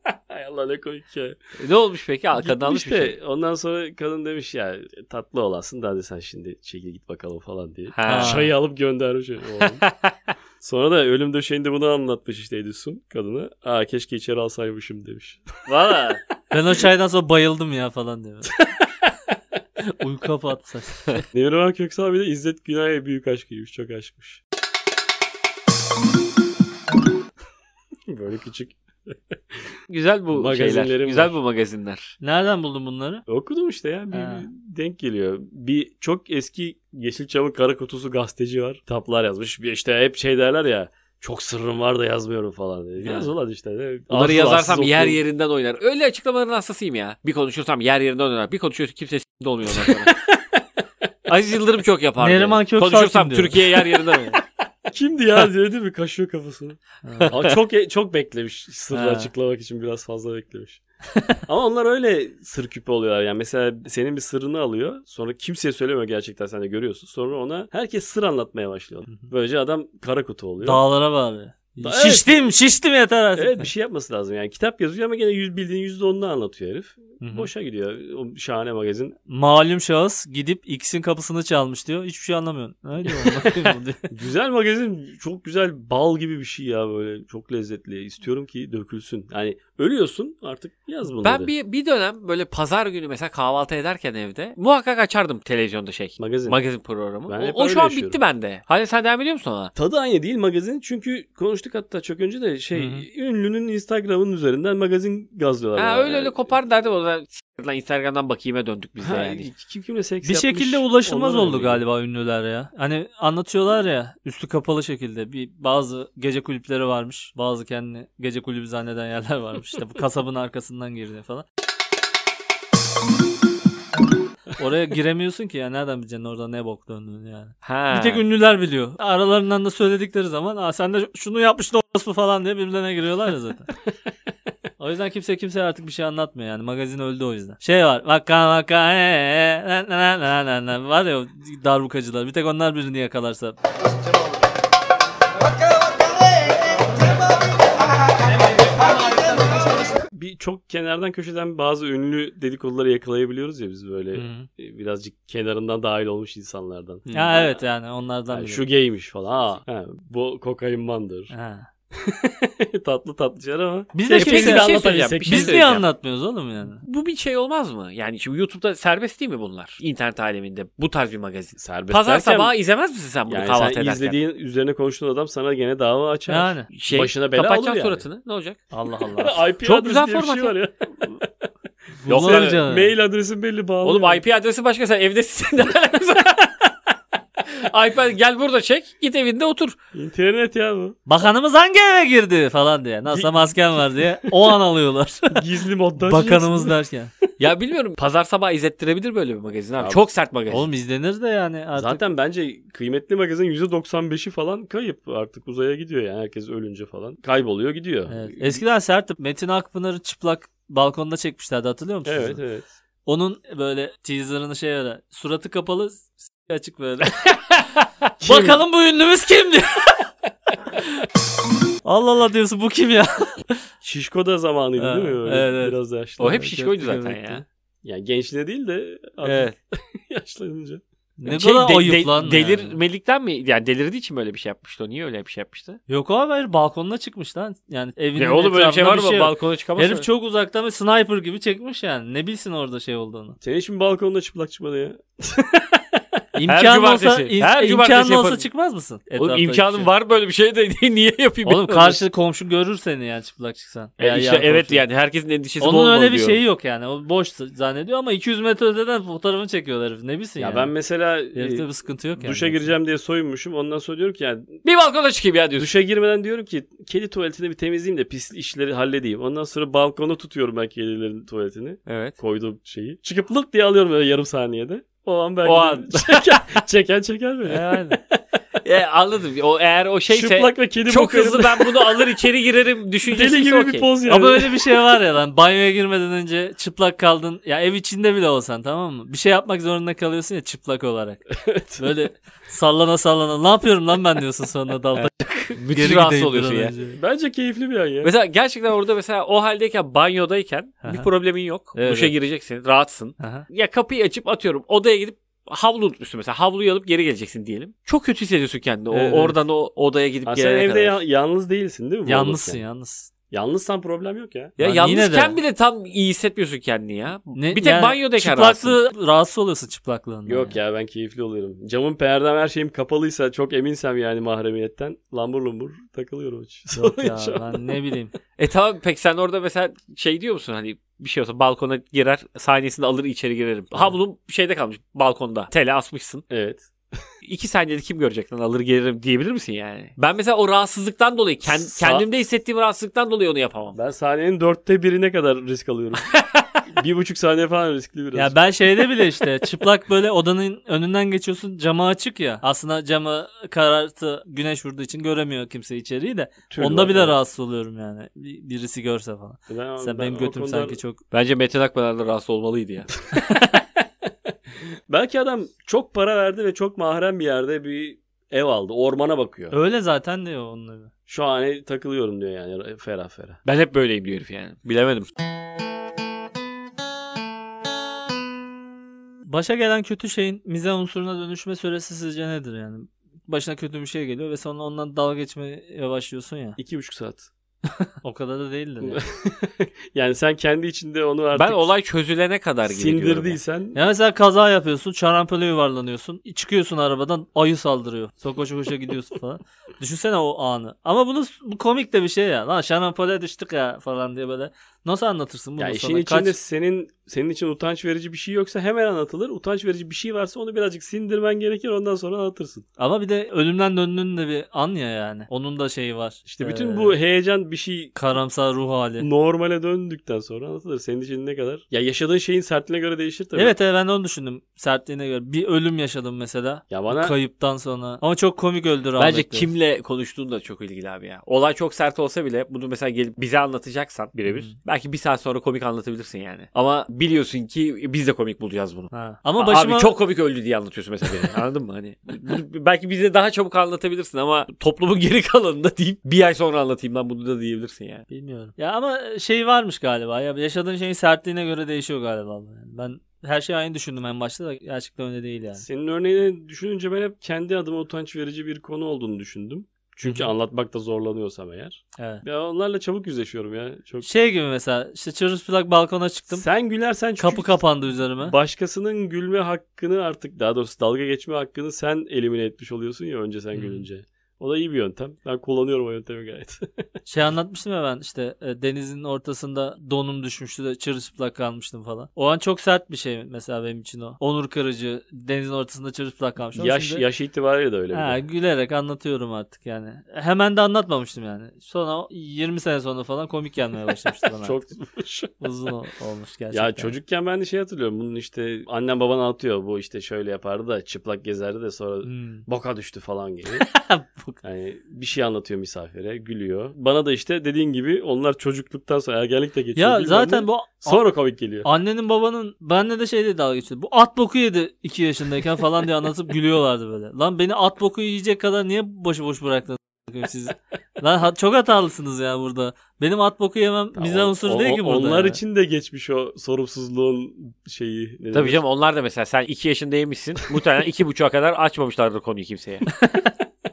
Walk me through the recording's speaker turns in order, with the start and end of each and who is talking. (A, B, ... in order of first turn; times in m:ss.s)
0:00.3-0:01.4 A
0:01.6-0:03.2 B
0:02.4-0:09.8 A
0:08.0-0:08.4 B
0:08.0-0:08.5 C
0:09.6-0:10.1 B
0:10.6-0:15.4 A
0:15.7-0:18.5 C
0:20.0-0:21.2 C
0:21.3-0:24.4 A
0:28.1-0:29.4 A
0:29.9-0:32.2 B
0:30.3-0:31.4 A
0:32.2-0:33.2 C
0:33.3-0:45.2 A
0:34.1-0:34.5 C
0:43.0-0:43.3 B
0:44.1-0:50.2 B
0:49.8-0:50.0 A
0:51.3-0:54.4 B
0:52.2-0:53.6 C
0:54.9-1:00.8 A
0:57.0-0:57.3 C
0:57.2-0:57.5 B
0:58.9-0:59.3 C
1:01.5-1:10.8 A
1:10.6-1:13.7 C
1:11.8-1:12.5 A
1:13.4-1:19.2 A
1:17.2-1:17.5 C
1:19.3-1:24.1 C
1:24.1-1:31.5 A
1:31.2-1:39.7 B
1:36.2-1:36.6 A
1:37.3-1:38.2 A
1:39.8-1:46.5 A
1:42.8-1:43.1 C
1:45.8-1:49.5 B
1:49.0-1:51.8 A
1:50.2-2:01.4 C
2:04.6-2:13.7 C
2:07.6-2:08.2 B
2:14.8-2:23.6 C
2:30.1-2:37.6 A
2:34.1-2:34.5 C
2:37.1-2:38.6 C
2:38.3-2:41.3 A
2:41.3-2:41.7 C
2:41.9-2:45.7 A
2:43.9-2:46.8 C
2:44.1-2:45.8 B
2:46.8-2:54.2 B
2:51.6-2:52.5 A
2:53.3-2:58.0 A
2:56.3-2:56.7 C
2:56.7-2:58.6 B
2:58.7-2:59.4 C
2:59.2-3:01.3 A
2:59.6-3:00.6 B
3:02.0-3:02.9 C
3:02.1-3:02.6 B
3:02.1-3:04.2 A
3:03.8-3:06.5 B
3:07.5-3:09.8 B
3:09.9-3:11.0 A
3:11.1-3:15.4 C
3:13.1-3:13.6 A
3:14.3-3:14.5 A
3:15.3-3:16.8 A
3:16.0-3:17.1 C
3:17.4-3:20.7 B
3:20.5-3:22.0 C
3:21.8-3:28.6 A
3:28.1-3:32.4 C
3:32.1-3:32.7 A
3:33.1-3:37.2 C
3:37.6-3:37.8 B
3:38.2-3:38.6 A
3:38.2-3:40.0 C
3:41.8-3:43.6 C
3:43.8-3:46.5 A
3:44.8-3:47.4 C
3:46.2-3:47.4 B
3:47.8-3:50.8 A
3:49.2-3:49.5 B
3:51.2-3:52.8 C
3:51.3-3:55.8 B
3:55.9-4:03.4 C
3:58.2-4:00.1 B
4:03.4-4:06.0 A
4:06.4-4:09.9 C
4:06.5-4:08.5 B
4:09.2-4:12.0 B
4:11.4-4:14.8 C
4:14.0-4:16.4 B
4:15.6-4:20.7 C
4:20.4-4:24.6 A
4:21.3-4:22.7 C
4:24.6-4:25.7 B
4:25.6-4:38.2 A
4:31.9-4:32.2 B
4:35.4-4:36.6 B
4:37.5-4:38.0 B
4:38.6-4:43.9 B
4:40.1-4:42.2 A
4:43.1-4:44.8 A
4:44.1-4:57.0 C
4:51.5-4:51.9 A
4:55.0-4:56.7 B
4:57.0-4:58.1 A
4:58.0-5:11.0 B
5:00.8-5:01.1 C
5:01.7-5:02.1 C
5:03.2-5:03.5 C
5:08.9-5:09.4 C
5:10.3-5:12.6 A
5:12.1-5:13.1 C
5:13.3-5:14.6 A
5:14.6-5:18.8 B
5:14.6-5:15.4 C
5:17.4-5:20.6 C
5:20.3-5:27.8 A
5:26.7-5:28.1 C
5:28.4-5:36.2 B
5:36.3-5:37.0 A
5:37.2-5:43.8 B
5:41.5-5:42.0 A
5:43.7-5:46.1 A
5:46.0-5:46.6 B
5:46.7-5:48.4 A
5:48.1-6:01.0 C
5:56.5-5:57.2 A
5:59.5-6:00.8 A
6:01.1-6:03.1 B
6:04.9-6:09.5 A
6:09.5-6:10.9 C
6:11.1-6:13.4 A
6:13.4-6:15.1 B
6:19.3-6:26.6 C
6:26.6-6:27.3 A
6:28.0-6:29.0 C
6:28.8-6:31.7 A
6:31.3-6:33.4 B
6:32.7-6:33.8 A
6:33.8-6:46.4 C
6:45.6-6:52.6 A
6:52.8-6:57.0 C
6:56.3-6:58.0 A
6:58.0-6:59.1 C
6:59.0-7:03.6 A
7:03.4-7:09.5 C
7:06.7-7:07.2 A
7:09.0-7:28.0 B
7:14.3-7:14.6 C
7:18.9-7:19.9 C
7:28.1-7:35.6 C
7:35.6-7:44.1 A
7:40.0-7:40.3 C
7:42.0-7:42.2 C
7:44.0-7:46.5 C
7:46.3-7:47.6 A
7:47.2-7:48.4 C
7:48.2-7:56.6 A
7:53.5-7:53.9 C
7:57.1-8:07.0 C
8:06.6-8:08.2 A
8:07.9-8:14.6 C
8:14.4-8:15.4 A
8:15.4-8:16.9 C
8:16.5-8:23.7 A
8:22.0-8:22.5 C
8:23.6-8:24.4 C
8:24.4-8:31.7 A
8:29.8-8:31.0 C
8:31.6-8:45.4 C
8:44.0-8:48.6 A
8:48.3-8:52.9 B